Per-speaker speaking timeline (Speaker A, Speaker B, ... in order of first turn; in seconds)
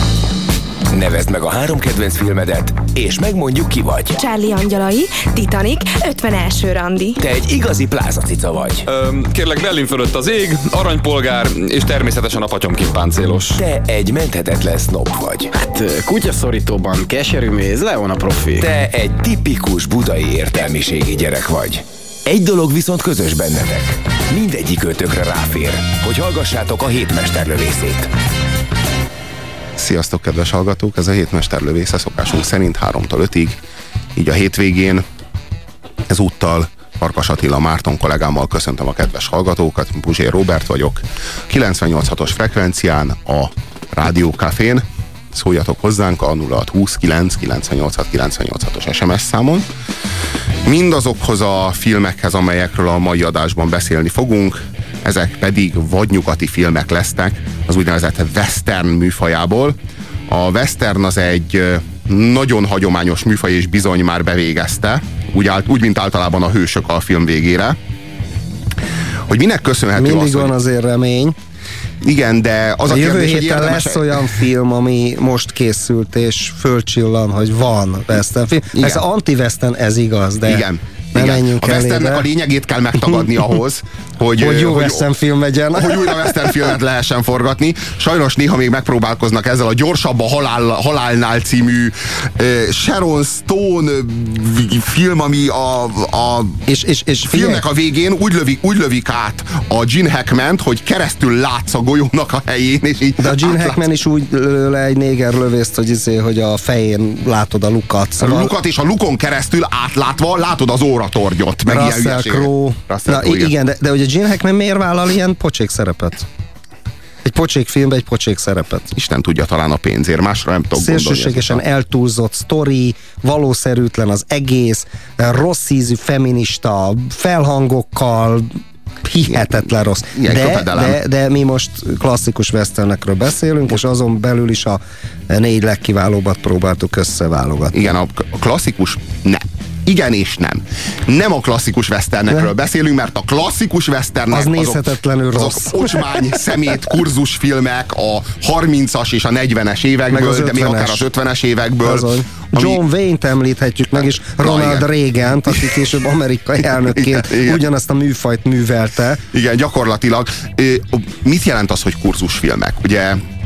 Speaker A: 0.9-4.2, 7.2-8.8, 13.5-15.5, 18.6-28.1
Speaker B: 4.2-7.2
Speaker C: 8.9-13.6
Speaker D: 15.5-18.6
Speaker E: 29.8-33.5, 34.1-35.0, 36.1-49.6, 50.6-59.7, 60.3-67.8, 69.3-70.5, 72.0-74.2, 78.7-79.0, 80.5-85.1, 85.7-96.6, 97.3-103.8, 108.2-113.5, 118.9-121.6, 129.3-131.0, 137.7-152.8, 154.0-154.9, 156.8-157.6, 159.3-163.2
Speaker F: 70.0-71.3, 72.9-80.6, 81.1-82.2, 84.4-86.5, 96.7-97.6, 103.2-108.5, 111.7-116.3, 117.2-118.9, 120.7-128.5, 129.0-137.9, 144.3-146.4, 150.1-151.0, 151.8-159.2